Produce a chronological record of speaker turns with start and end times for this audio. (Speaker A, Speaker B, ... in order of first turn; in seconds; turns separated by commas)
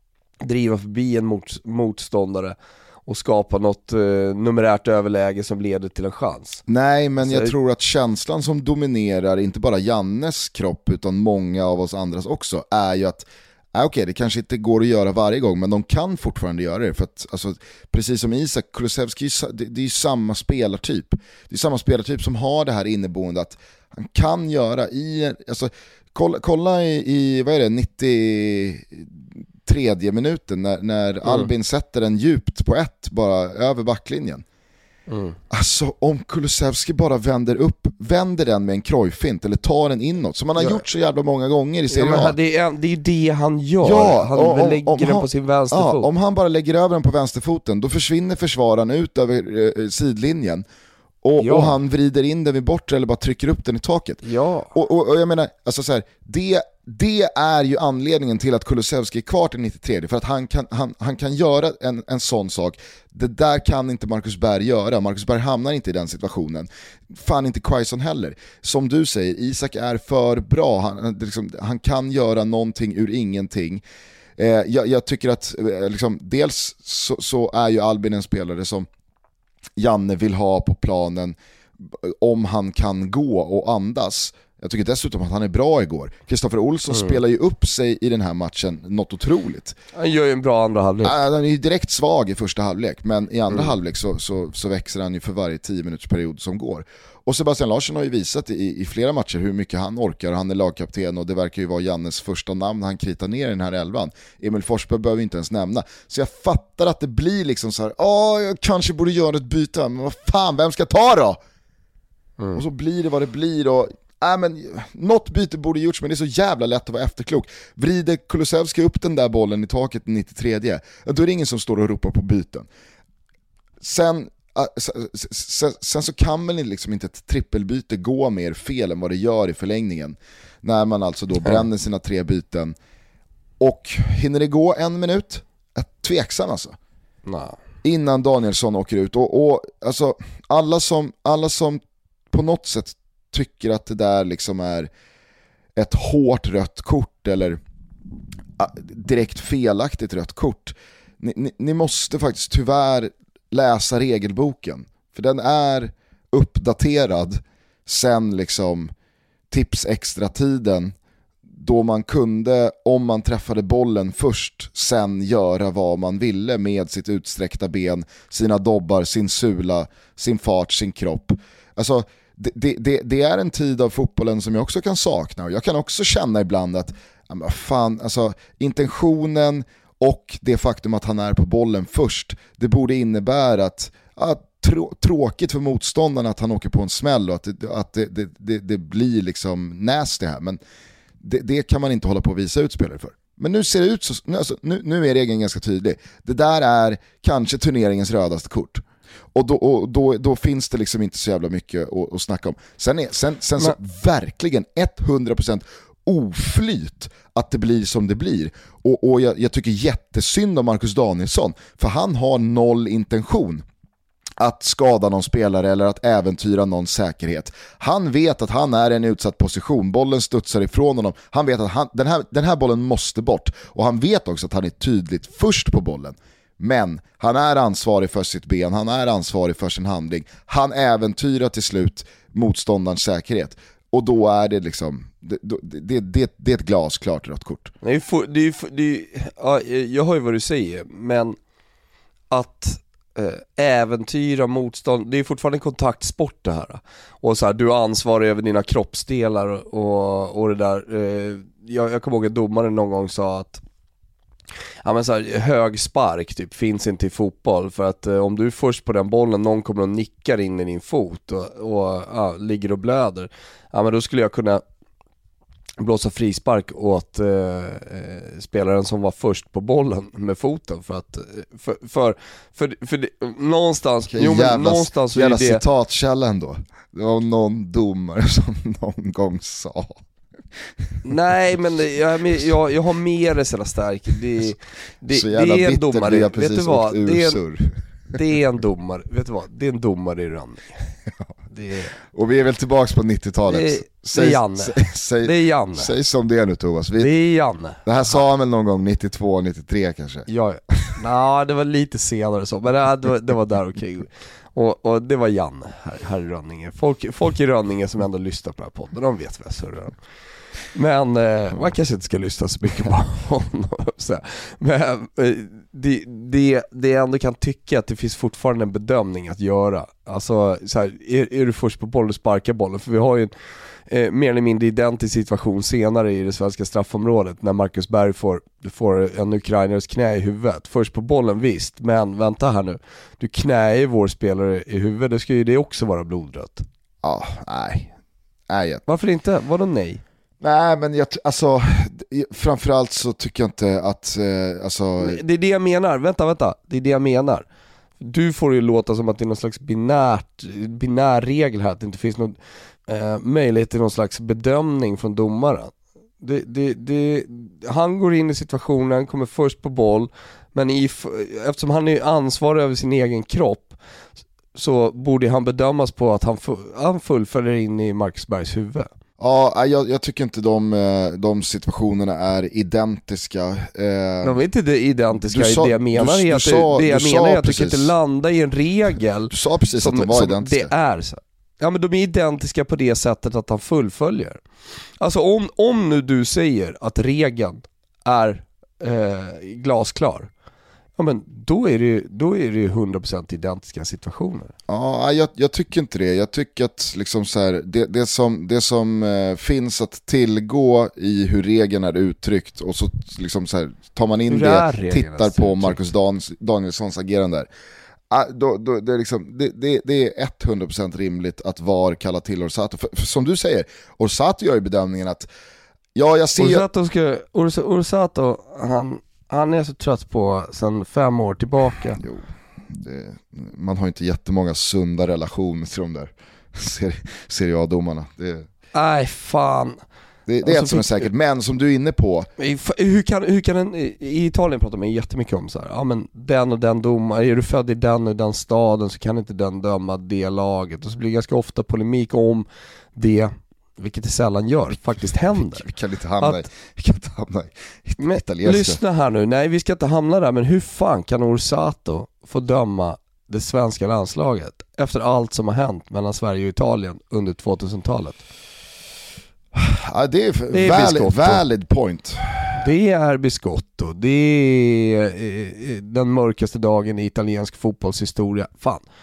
Speaker A: 0.4-6.6, Speaker B: 6.7-34.4, Speaker A: 7.2-7.5, Speaker A: 31.2-31.5, Speaker A: 35.1-35.4, Speaker B: 35.5-42.3, Speaker A: 40.6-40.8, Speaker A: 41.9-46.1, Speaker B: 43.8-50.6, Speaker B: 51.2-73.8, Speaker A: 51.4-51.8, Speaker A: 54.2-54.7, Speaker B: 74.4-78.9, Speaker B: 79.8-89.8, Speaker A: 86.9-87.2, Speaker A: 89.9-91.1, Speaker B: 91.0-111.4, Speaker B: 112.5-122.7, Speaker B: 123.8-132.7, Speaker B: 133.6-136.7, Speaker A: 137.2-137.6, Speaker B: 137.8-144.9, Speaker B: 145.8-147.6, Speaker B: 148.6-158.9, Speaker B: 159.5-160.9, Speaker B: 161.5-190.6, Speaker B: 191.2-198.8, Speaker B: 199.3-213.6, Speaker B: 214.4-237.7, Speaker A: 237.8-241.3, Speaker A: 242.3-253.6, Speaker A: 254.8-264.6, Speaker A: 265.8-275.6, Speaker B: 274.1-280.0, Speaker A: 281.0-287.4, Speaker B: 285.1-287.8, Speaker A: 288.1-290.9, Speaker A: 291.5-291.9, Speaker B: 292.1-297.1, Speaker A: 293.5-295.9, Speaker A: 297.0-297.9, Speaker B: 297.8-300.9, Speaker A: 300.3-310.0, Speaker A: 310.7-323.3, Speaker A: 323.9-336.6, Speaker B: 337.0-337.9, Speaker B: 338.5-338.8, Speaker A: 338.9-340.0, Speaker B: 340.4-345.2, Speaker A: 345.0-347.4, Speaker A: 348.0-363.8, Speaker A: 364.5-368.9, Speaker B: 369.2-374.4, Speaker A: 374.2-384.4, Speaker B: 375.3-377.9, Speaker B: 379.3-380.7, Speaker A: 385.0-390.3, Speaker A: 391.0-394.5, Speaker B: 394.7-407.5, Speaker A: 404.3-405.8, Speaker B: 408.1-415.3, Speaker B: 415.9-416.6, Speaker A: 416.4-422.0, Speaker B: 422.0-428.5, Speaker A: 428.7-429.8, Speaker B: 430.3-432.3, Speaker A: 430.4-431.1, Speaker A: 432.4-445.7, Speaker B: 445.3-448.8, Speaker A: 446.2-446.5, Speaker A: 448.0-458.2, Speaker B: 459.5-462.6, Speaker A: 460.5-461.4, Speaker A: 462.6-468.8